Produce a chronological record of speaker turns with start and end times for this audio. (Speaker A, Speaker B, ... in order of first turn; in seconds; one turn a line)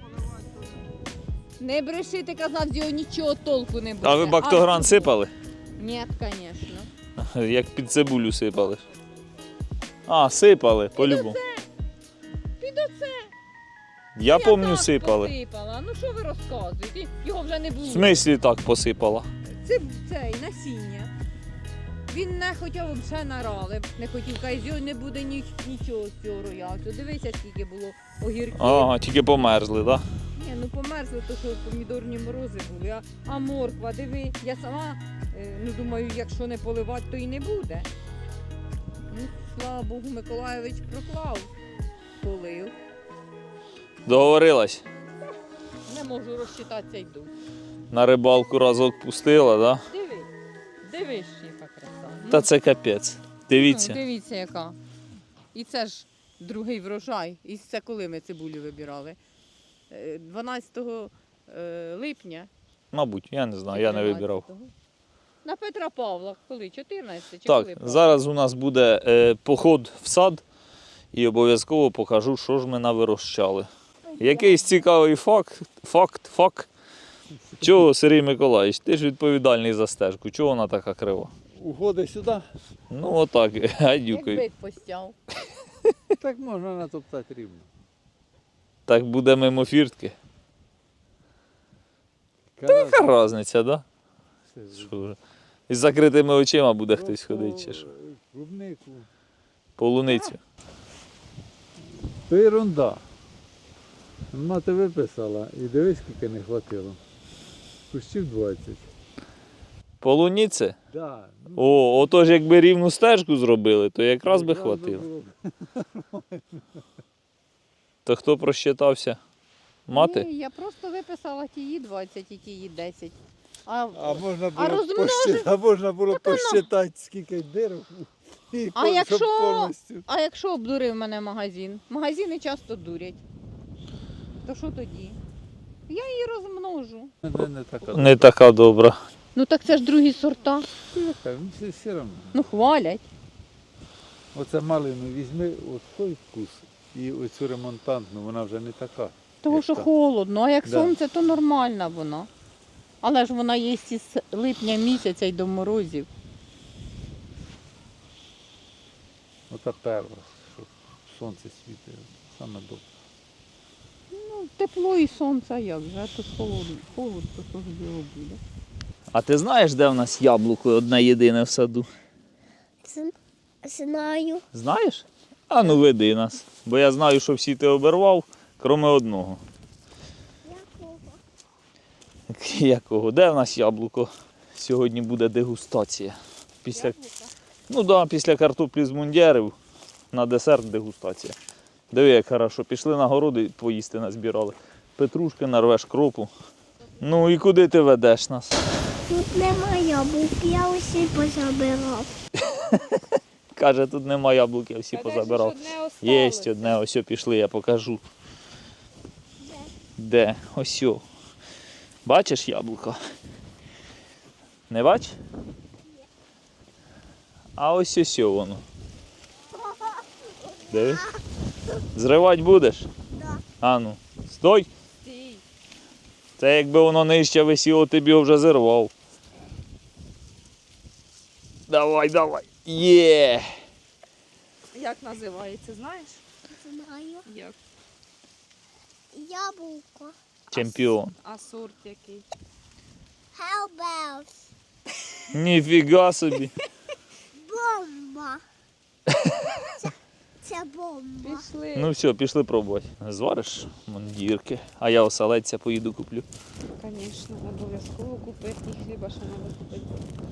Speaker A: 1.6-5.1
Speaker B: 4.0-5.3
Speaker A: 5.8-6.9
Speaker B: 7.2-8.8
Speaker B: 10.1-11.4
Speaker A: 10.9-11.7
Speaker A: 12.6-13.3
Speaker B: 14.1-15.3
Speaker A: 14.3-18.2
Speaker B: 17.9-19.3
Speaker A: 19.6-21.1
Speaker A: 22.1-28.9
Speaker B: 28.5-30.0
Speaker A: 30.4-37.9
Speaker A: 39.1-41.5
Speaker A: 42.2-42.7
Speaker B: 44.1-44.8
Speaker A: 45.9-47.3
Speaker B: 47.9-49.8
Speaker A: 49.9-50.3
Speaker A: 50.8-52.5
Speaker B: 52.3-54.0
Speaker A: 53.5-54.8
Speaker A: 55.5-59.2
Speaker A: 59.9-62.5
Speaker B: 62.9-64.4
Speaker A: 63.7-64.7
Speaker A: 65.4-68.2
Speaker B: 67.4-70.4
Speaker B: 71.1-76.7
Speaker A: 74.1-74.6
Speaker B: 77.6-81.3
Speaker C: 81.5-82.4
Speaker B: 82.9-84.4
Speaker A: 84.1-85.2
Speaker C: 86.1-87.7
Speaker B: 88.9-90.2
Speaker C: 92.5-93.2
Speaker B: 92.7-93.8
Speaker C: 94.5-95.0
Speaker B: 94.7-95.2
Speaker B: 95.7-97.8
Speaker C: 96.9-99.1
Speaker B: 99.8-100.4
Speaker C: 102.3-103.0
Speaker C: 104.3-107.0
Speaker C: 107.9-108.8
Speaker B: 110.0-110.8
Speaker C: 110.9-112.0
Speaker B: 111.5-115.0
Speaker C: 114.2-116.6
Speaker B: 118.0-119.2
Speaker B: 119.9-120.3
Speaker A: 119.9-125.5
Speaker C: 123.9-130.0
Speaker A: 126.1-126.7
Speaker A: 128.7-133.2
Speaker A: 134.4-135.2
Speaker A: 135.9-137.1
Speaker C: 137.2-138.3
Speaker B: 137.9-139.0
Speaker A: 139.3-140.7
Speaker C: 140.8-142.5
Speaker A: 142.3-143.0
Speaker C: 144.3-149.9
Speaker A: 149.4-152.3
Speaker C: 150.6-151.0
Speaker A: 153.0-156.1
Speaker C: 159.5-162.8
Speaker A: 164.1-168.4
Speaker B: 169.1-171.9
Speaker D: 172.8-174.4
Speaker B: 174.5-179.4
Speaker D: 180.4-181.2
Speaker B: 182.3-186.9
Speaker A: 186.7-187.3
Speaker B: 187.7-189.5
Speaker B: 190.1-191.3
Speaker B: 191.9-196.3
Speaker B: 197.0-198.6
Speaker D: 199.1-202.1
Speaker B: 202.7-203.0
Speaker B: 203.5-208.0
Speaker E: 204.9-206.8
Speaker D: 209.4-209.7
Speaker B: 210.0-211.0
Speaker B: 212.0-213.0
Speaker B: 214.7-215.2
Speaker B: 217.6-218.6
Speaker D: 220.5-220.9
Speaker B: 220.7-221.1
Speaker B: 221.9-222.9
Speaker B: 223.6-224.7
Speaker E: 225.0-225.4
Speaker B: 226.4-228.9
Speaker B: 231.7-233.6
Speaker E: 234.7-236.2
Speaker D: 236.6-237.2
Speaker E: 237.3-237.6
Speaker D: 239.1-240.1
Speaker B: 240.5-241.1
Speaker E: 240.5-242.2
Speaker D: 243.3-244.3
Speaker B: 245.3-246.6
Speaker D: 247.4-248.4
Speaker B: 249.1-249.6
Speaker D: 250.4-251.4
Speaker E: 251.2-251.9
Speaker B: 251.7-256.2
Speaker E: 256.8-260.0